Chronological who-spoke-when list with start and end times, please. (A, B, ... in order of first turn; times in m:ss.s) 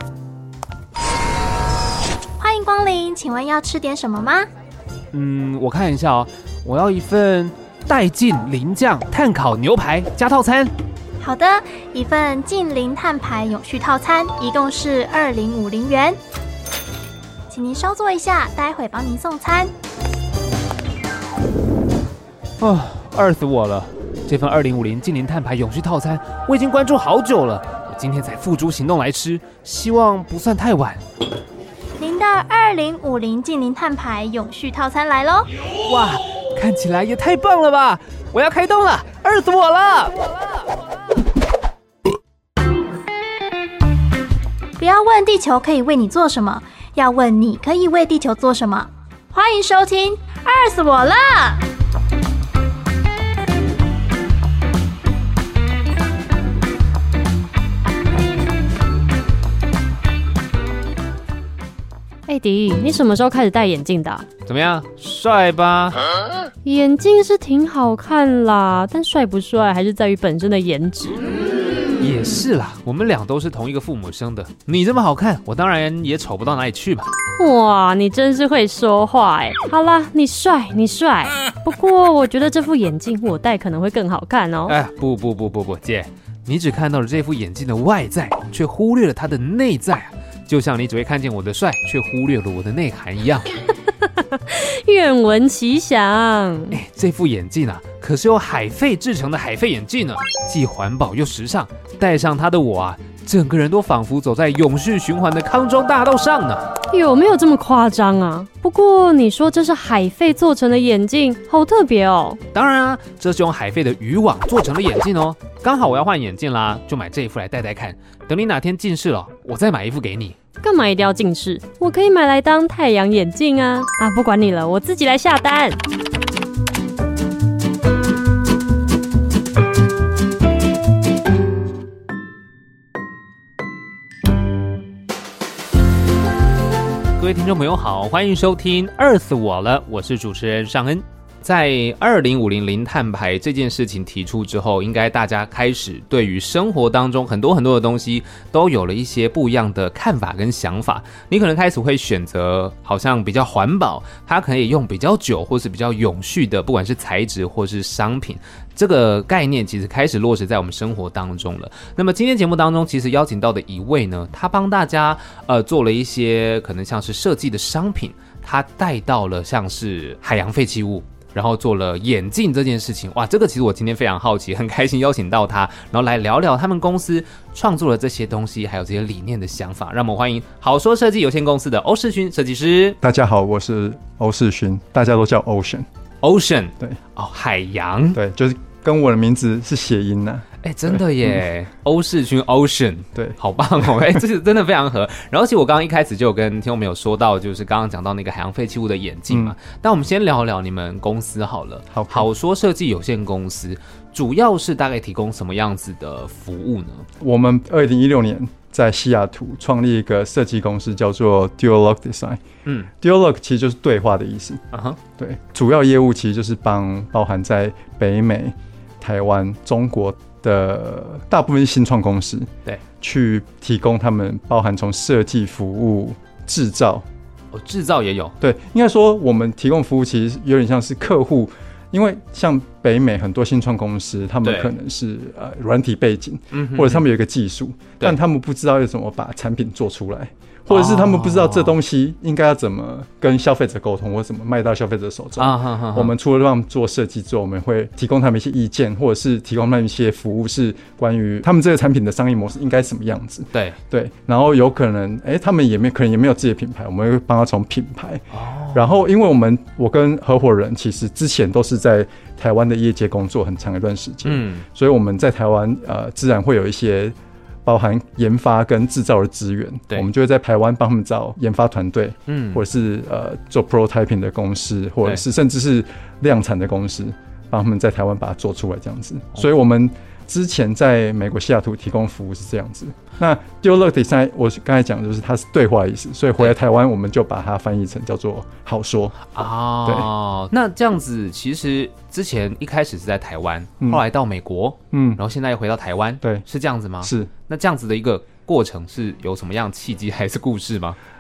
0:02.4-0:04.5 A
0:05.1-0:10.7 B
0:11.2-0:16.2 A
0:17.5-0:19.7 A
0:22.6-0:31.0 B
0:32.0-0:35.5 A
0:35.8-0:40.2 B
0:44.8-0:51.6 A
1:02.3-1:04.2 C
1:04.4-1:06.0 B
1:06.6-1:11.2 C
1:12.0-1:17.1 B
1:17.4-1:24.7 C
1:24.7-1:33.5 B
1:34.3-1:36.8 C
1:36.7-1:46.7 B
1:46.9-1:52.4 C
1:52.5-2:00.4 B
2:00.6-2:05.8 C
2:17.2-3:03.0 B
3:03.0-3:05.9 D
3:06.2-3:08.2 B
3:08.1-3:11.3 D
3:10.6-3:27.1 B
3:13.1-3:14.2 D
3:19.3-3:19.6 D
3:21.9-3:22.3 D
3:27.2-3:34.6 D
3:34.7-3:35.0 B
3:35.2-3:47.1 D
3:47.5-3:48.4 B
3:48.4-4:49.3 D
3:54.4-3:54.7 B
3:56.5-3:57.1 B
4:00.7-4:01.8 B
4:05.4-4:06.1 B
4:13.5-4:13.8 B
4:18.3-4:18.9 B
4:24.2-4:24.7 B
4:32.3-4:32.6 B
4:49.3-5:01.0 B
4:49.8-4:50.1 D
4:54.9-4:55.2 D
4:57.0-4:57.3 D